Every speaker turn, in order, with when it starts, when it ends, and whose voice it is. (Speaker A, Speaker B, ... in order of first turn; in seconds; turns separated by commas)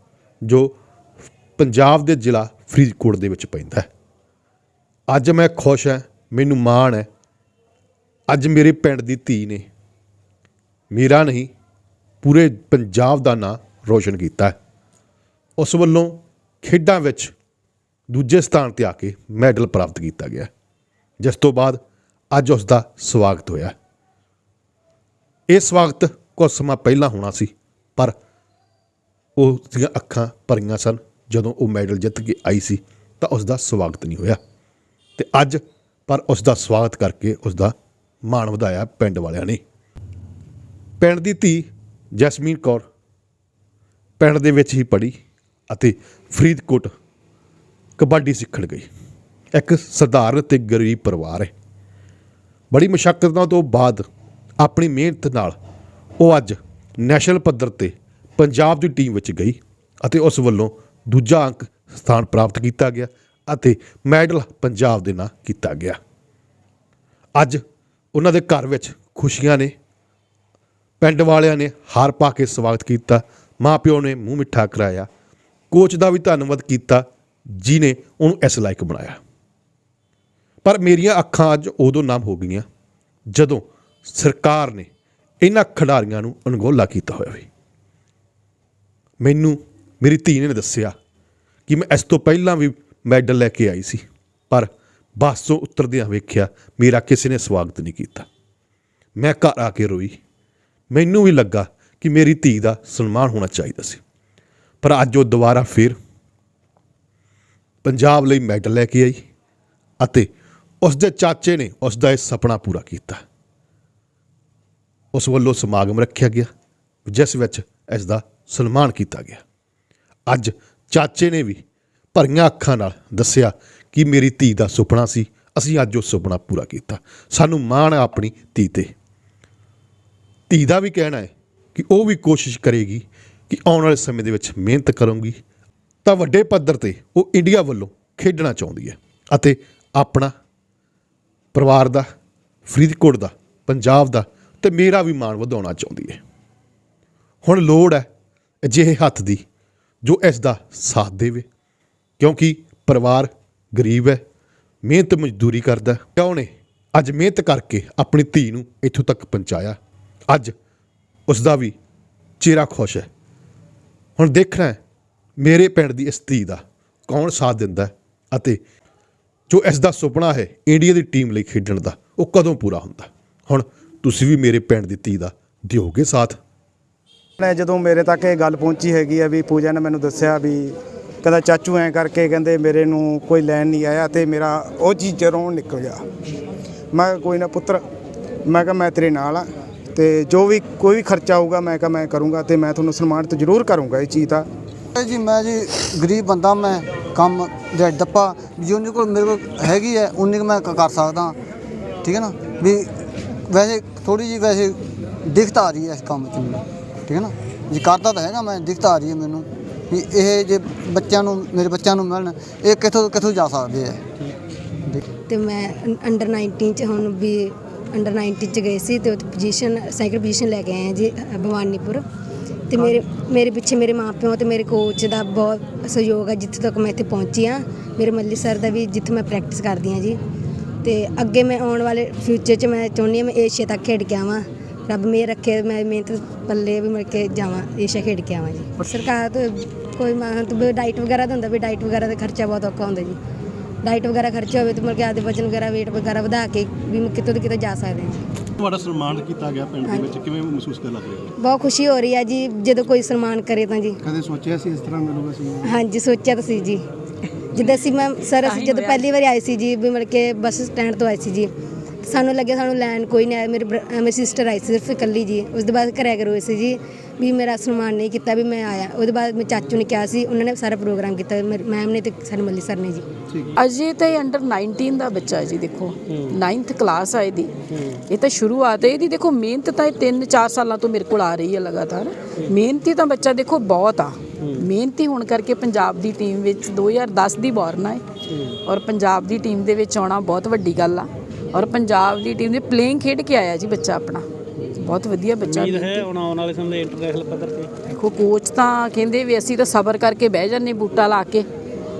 Speaker A: 0.4-0.7, Speaker A: 1.6-3.9, Speaker A: 5.1-7.1, Speaker A: 8.3-9.6, Speaker A: 10.9-11.5, Speaker A: 12.2-14.5, Speaker A: 15.6-17.3, Speaker A: 18.1-20.5, Speaker A: 21.2-21.8, Speaker A: 22.3-23.7, Speaker A: 25.5-28.1, Speaker A: 29.4-34.4, Speaker A: 35.2-37.7, Speaker A: 38.3-39.6, Speaker A: 41.0-42.8, Speaker A: 44.2-45.1, Speaker A: 45.7-46.9, Speaker A: 48.0-48.9, Speaker A: 49.5-51.5, Speaker A: 52.7-54.0, Speaker A: 54.6-55.6, Speaker A: 56.2-66.0, Speaker A: 68.1-69.7, Speaker A: 71.0-75.1, Speaker A: 75.7-79.2, Speaker A: 80.6-82.6, Speaker A: 83.3-84.9, Speaker A: 85.4-87.5, Speaker A: 89.2-90.9, Speaker A: 91.7-98.3, Speaker A: 99.2-100.2, Speaker A: 100.9-104.0, Speaker A: 104.8-106.0, Speaker A: 107.8-109.2, Speaker A: 110.0-110.3, Speaker A: 110.8-113.2, Speaker A: 115.1-116.5, Speaker A: 117.0-119.4, Speaker A: 120.3-121.6, Speaker A: 122.1-128.9, Speaker A: 130.5-135.4, Speaker A: 136.0-140.3, Speaker A: 141.5-142.1, Speaker A: 142.7-146.2, Speaker A: 147.4-148.1, Speaker A: 148.6-149.4, Speaker A: 150.0-151.4, Speaker A: 152.2-154.2, Speaker A: 154.8-159.8, Speaker A: 161.3-161.7, Speaker A: 162.4-163.1, Speaker A: 164.2-164.8, Speaker A: 165.4-168.6, Speaker A: 169.5-176.4, Speaker B: 177.4-186.0, Speaker B: 186.9-187.8, Speaker B: 188.5-194.5, Speaker C: 194.9-201.3, Speaker C: 202.0-202.9, Speaker C: 203.4-214.1, Speaker D: 215.3-222.0, Speaker D: 222.7-230.2, Speaker D: 230.8-243.2, Speaker D: 243.8-248.2, Speaker E: 248.6-251.3, Speaker D: 249.8-250.1, Speaker D: 251.4-254.0, Speaker E: 254.2-254.4, Speaker D: 255.6-256.8, Speaker D: 257.5-261.5, Speaker F: 258.4-259.1, Speaker D: 262.0-273.0, Speaker F: 273.6-277.5, Speaker G: 277.7-278.0, Speaker F: 278.1-288.0, Speaker G: 288.3-288.6, Speaker F: 288.6-294.2, Speaker F: 294.8-296.1, Speaker G: 295.5-297.7, Speaker F: 297.9-301.5